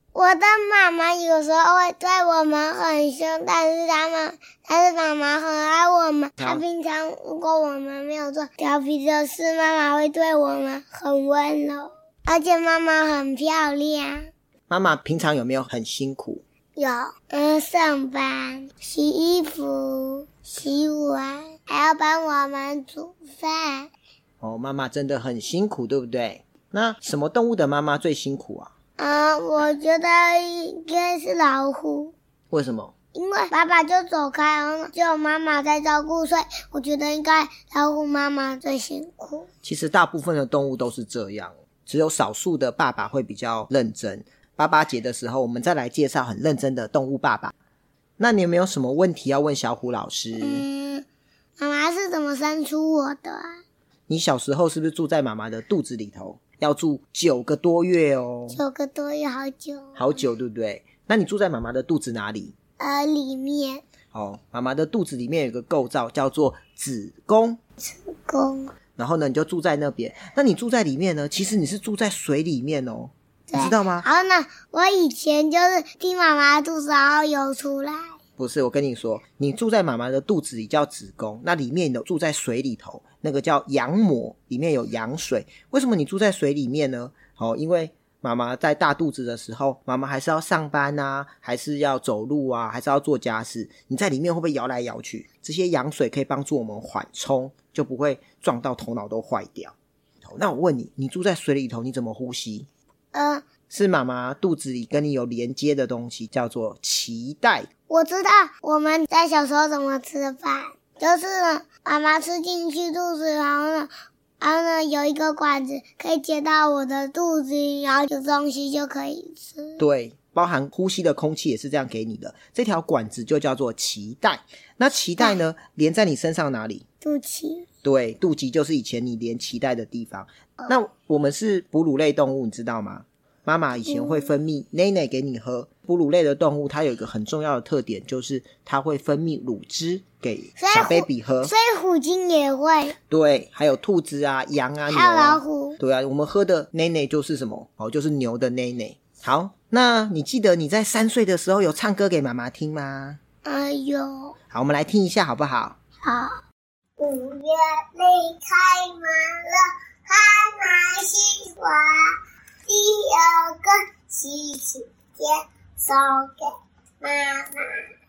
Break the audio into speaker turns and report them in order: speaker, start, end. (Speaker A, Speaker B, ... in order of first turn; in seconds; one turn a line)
Speaker A: 0.1-14.3
Speaker B: 6.4-6.6
Speaker B: 14.7-16.4
Speaker A: 16.8-23.9
Speaker B: 24.4-28.7
Speaker A: 29.0-32.1
Speaker B: 32.5-32.9
Speaker A: 33.1-39.5
Speaker B: 39.6-47.5
Speaker B: 48.2-50.6
Speaker A: 50.4-51.1
Speaker A: 51.6-53.5
Speaker B: 54.1-58.6
Speaker A: 58.5-60.0
Speaker B: 60.0-62.5
Speaker A: 62.8-63.8
Speaker B: 64.1-67.6
Speaker A: 67.8-68.7
Speaker B: 69.0-74.1
Speaker A: 73.5-78.2
Speaker B: 78.4-102.7
Speaker A: 103.1-103.5
Speaker B: 103.7-107.7
Speaker A: 107.9-119.8
Speaker B: 119.8-126.8
Speaker A: 127.0-127.7
Speaker B: 127.8-141.5
Speaker A: 133.8-134.3
Speaker A: 140.6-143.0
Speaker B: 143.1-153.2
Speaker A: 144.9-145.8
Speaker A: 153.4-154.4
Speaker B: 154.5-155.8
Speaker A: 156.0-156.3
Speaker A: 157.0-167.9